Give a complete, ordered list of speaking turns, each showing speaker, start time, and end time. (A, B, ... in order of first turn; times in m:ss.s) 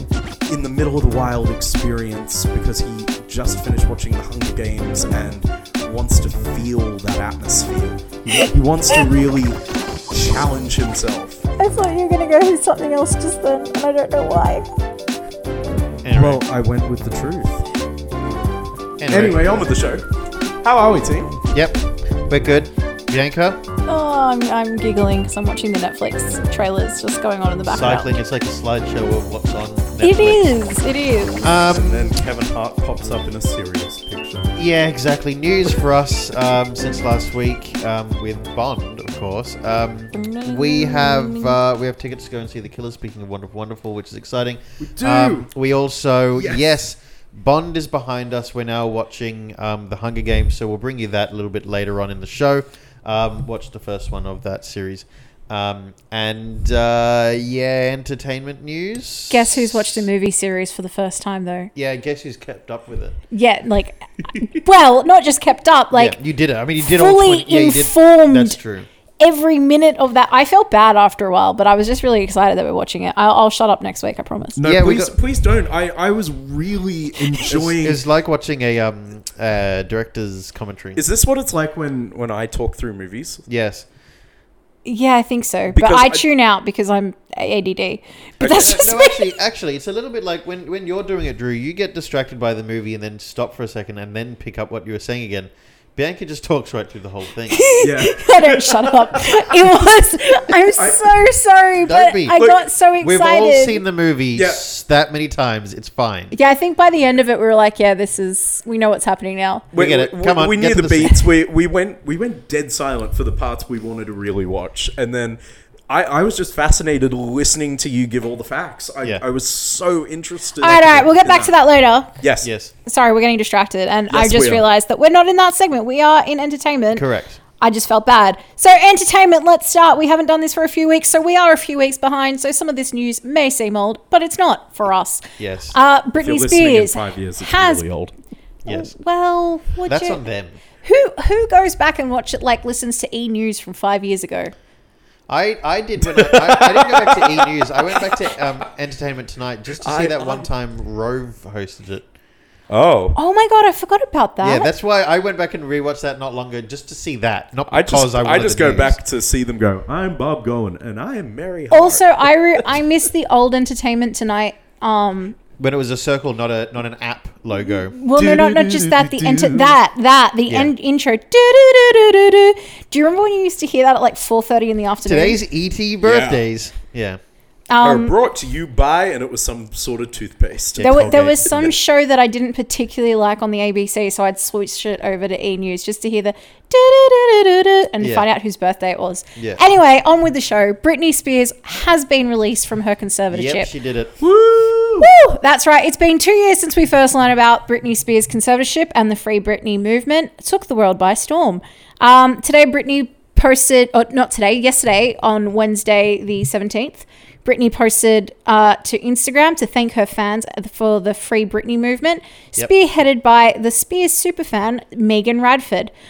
0:00.5-0:11.5 A
0:11.6-0:14.7 B
0:16.0-0:16.4 C
0:16.1-0:17.6 A
0:19.0-0:20.0 C
0:19.1-0:20.0 A
0:20.6-0:21.4 A
0:21.5-0:23.6 C
0:23.8-0:28.1 B
0:27.6-0:30.5 C
0:30.0-0:31.4 B
0:31.4-0:32.0 C
0:31.4-0:34.5 A
0:34.6-1:00.1 C
0:40.1-0:41.6 B
0:44.8-0:45.5 A
0:46.3-0:46.7 A
0:59.3-1:01.7 B
1:01.7-1:03.2 C
1:03.3-1:06.2 B
1:05.9-1:08.9 C
1:06.8-1:08.6 B
1:09.2-1:14.6 B
1:14.6-1:18.0 A
1:14.6-1:15.1 C
1:17.4-1:21.0 C
1:21.0-1:23.4 A
1:23.4-1:23.8 C
1:24.8-1:29.3 B
1:25.7-1:26.2 A
1:28.4-1:28.8 A
1:28.6-1:37.7 C
1:37.5-1:43.8 B
1:37.8-1:39.5 A
1:40.8-1:41.2 A
1:41.8-1:42.4 C
1:42.4-1:42.6 A
1:43.0-1:46.3 C
1:44.3-1:44.6 A
1:46.3-1:49.7 B
1:49.7-2:01.6 A
1:49.7-1:51.1 C
2:00.6-2:02.2 B
2:02.2-2:02.5 A
2:02.4-2:02.7 C
2:02.8-2:07.0 B
2:04.1-2:04.6 A
2:06.9-2:07.4 C
2:07.6-2:17.8 B
2:15.4-2:15.8 C
2:16.2-2:18.1 A
2:18.6-2:18.9 C
2:18.7-2:20.2 B
2:19.8-2:20.6 C
2:20.8-2:24.5 B
2:25.3-2:32.1 C
2:26.2-2:27.4 A
2:29.8-2:30.5 A
2:32.7-2:33.2 A
2:33.1-2:34.7 B
2:34.4-2:39.0 C
2:37.7-2:42.9 A
2:41.7-2:45.4 B
2:45.6-2:48.0 C
2:47.9-2:55.4 B
2:48.1-2:49.8 A
2:55.0-2:57.2 C
2:56.0-2:56.4 A
2:57.7-2:58.1 B
2:57.8-3:01.7 A
3:00.8-3:01.7 C
3:00.8-3:13.7 B
3:08.0-3:08.3 C
3:09.4-3:09.6 C
3:13.3-3:14.2 C
3:14.2-3:15.1 A
3:15.0-3:35.9 B